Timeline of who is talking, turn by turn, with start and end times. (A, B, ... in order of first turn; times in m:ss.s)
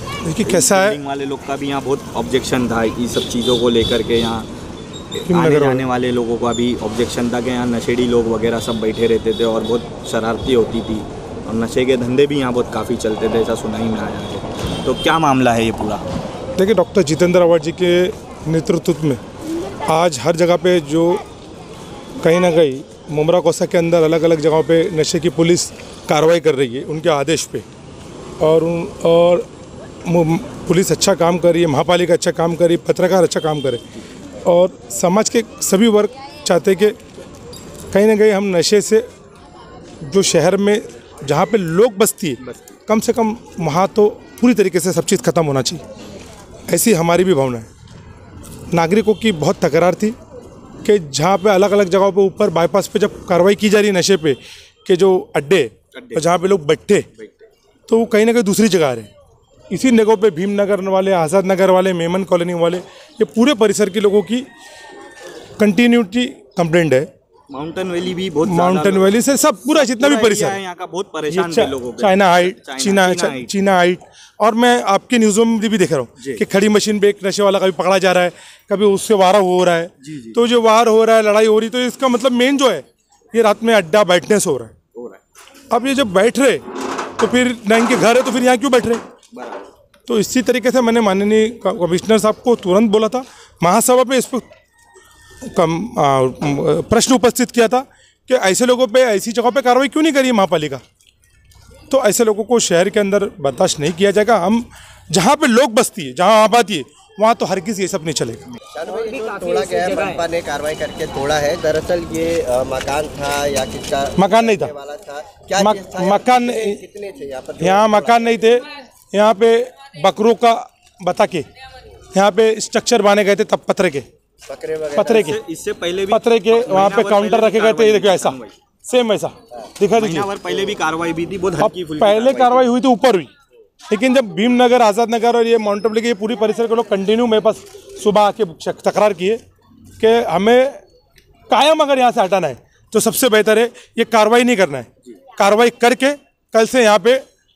0:00.2-0:01.0 A
0:00.4-0:04.5 B
0:05.2-0:16.0 B
0:05.3-0:05.9 A
0:16.6-0:19.2 A
0:19.9-0:21.2 A
0:22.2-0:27.6 A
0:28.4-0:29.5 A
0:30.1-0:33.8 A
0:34.5-0:37.0 A
0:37.9-0:39.0 A
0:40.0-0:45.8 A
0:42.4-0:42.8 B
0:46.7-0:47.7 A
0:48.7-0:50.2 A
0:50.8-0:57.1 A
0:55.9-0:56.4 B
0:57.2-0:57.5 B
0:57.9-0:59.1 A
0:59.7-1:04.5 A
1:05.6-1:07.1 A
1:07.5-1:09.1 B
1:08.4-1:10.6 A
1:09.7-1:13.5 B
1:11.3-1:24.7 A
1:16.2-1:16.4 B
1:20.0-1:20.4 B
1:25.0-1:25.2 B
1:25.7-1:26.6 A
1:27.2-1:29.0 A
1:29.3-1:29.6 B
1:30.1-1:34.4 A
1:35.5-1:40.8 A
1:41.9-1:48.4 A
1:48.7-1:58.4 C
1:54.2-1:54.7 A
1:55.6-1:56.8 A
1:57.6-2:01.5 A
2:02.1-2:04.1 A
2:04.5-2:05.3 C
2:05.0-2:05.4 A
2:05.1-2:08.6 B
2:06.1-2:10.3 A
2:10.0-2:12.7 B
2:11.6-2:13.3 A
2:13.9-2:19.4 A
2:20.0-2:20.8 A
2:21.5-2:27.2 A